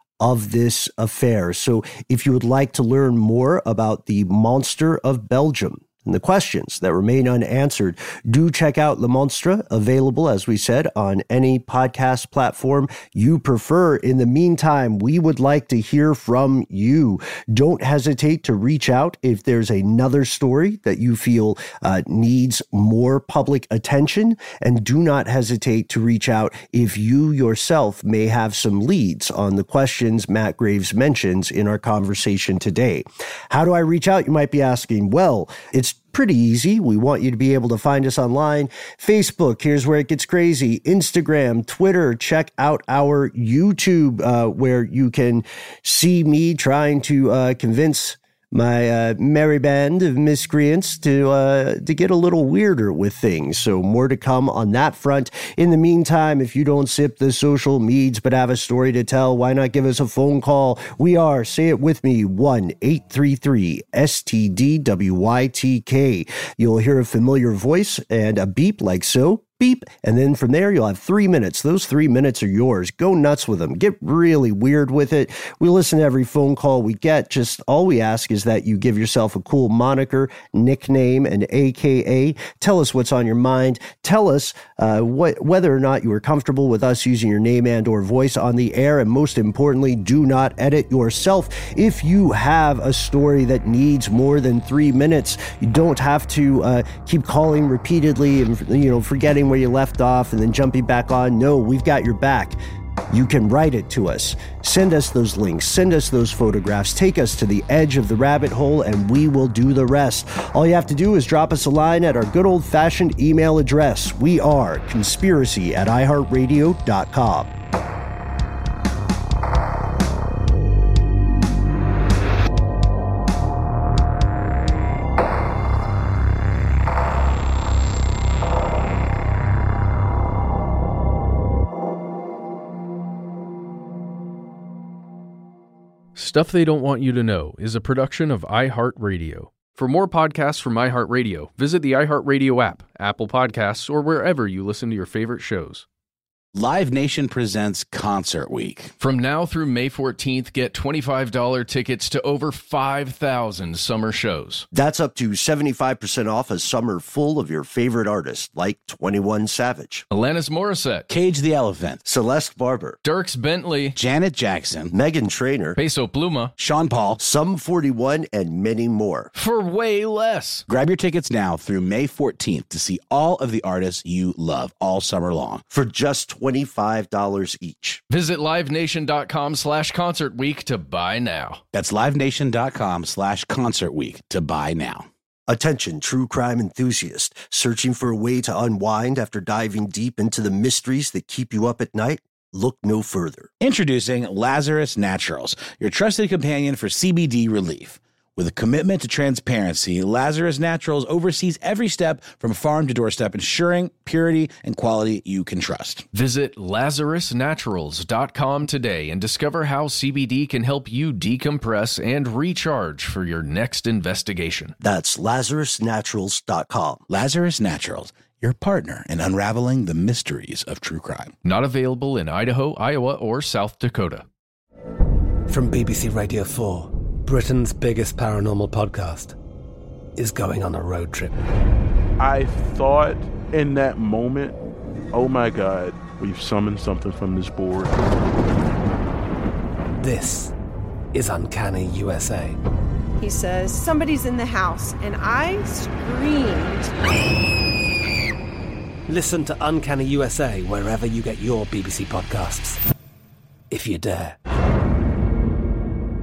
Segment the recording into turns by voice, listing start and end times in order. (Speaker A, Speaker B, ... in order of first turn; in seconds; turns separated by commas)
Speaker A: 0.2-102.6, Speaker A: 103.1-117.5, Speaker B: 136.2-145.8, Speaker C: 146.5-148.9, Speaker B: 149.0-154.7, Speaker A: 154.7-160.1, Speaker B: 160.1-161.1, Speaker C: 161.1-162.0, Speaker A: 162.0-163.0, Speaker B: 163.0-163.9, Speaker C: 163.9-164.9, Speaker A: 164.9-165.8, Speaker B: 165.8-166.5, Speaker C: 166.6-167.2, Speaker A: 167.2-169.3, Speaker B: 169.3-170.6, Speaker C: 170.7-175.6, Speaker A: 175.7-178.0, Speaker B: 178.1-181.6, Speaker C: 181.7-185.1, Speaker A: 185.5-193.5, Speaker C: 193.6-206.1, Speaker B: 206.1-214.7, Speaker A: 214.8-217.0, Speaker C: 217.1-221.3, Speaker B: 221.4-224.2, Speaker D: 225.5-229.3, Speaker D: 230.2-231.3, Speaker E: 232.2-234.6, Speaker E: 235.1-237.9, Speaker D: 240.0-240.5, Speaker D: 241.1-242.6, Speaker F: 243.2-246.9, Speaker D: 249.1-252.8, Speaker D: 253.7-254.4